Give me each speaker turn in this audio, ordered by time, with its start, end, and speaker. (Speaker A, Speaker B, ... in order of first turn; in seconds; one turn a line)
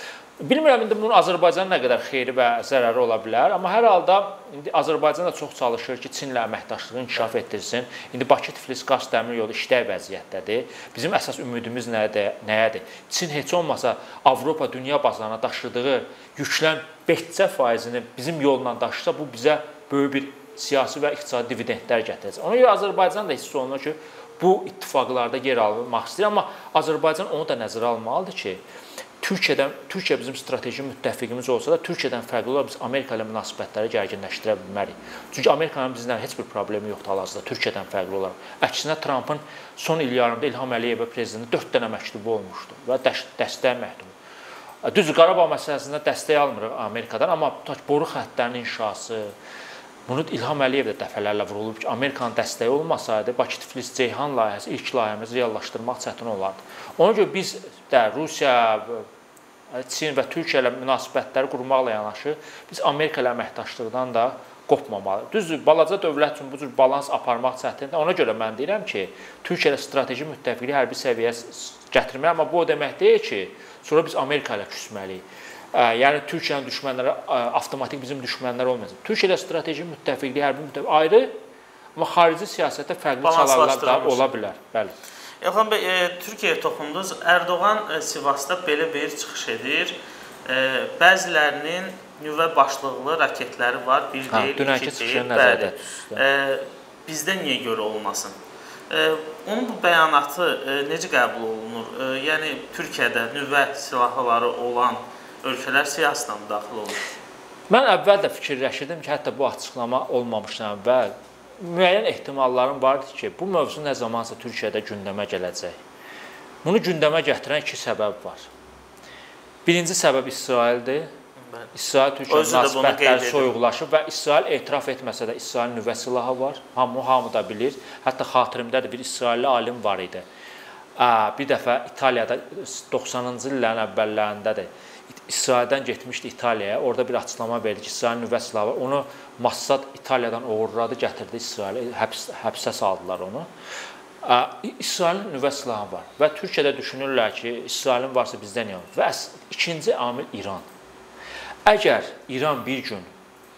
Speaker A: 0.4-28.6
Speaker A: 29.2-44.1
Speaker A: 44.8-49.3
Speaker A: 50.1-59.1
Speaker A: 59.7-81.3
Speaker A: 82.0-85.0
Speaker B: 83.2-84.3
Speaker B: 85.4-98.3
Speaker A: 94.3-96.2
Speaker B: 98.9-107.0
Speaker A: 107.7-115.8
Speaker A: 116.6-118.5
Speaker A: 119.7-121.1
Speaker A: 121.7-130.2
Speaker B: 122.3-123.5
Speaker A: 131.0-143.5
Speaker A: 144.2-150.7
Speaker A: 151.7-153.1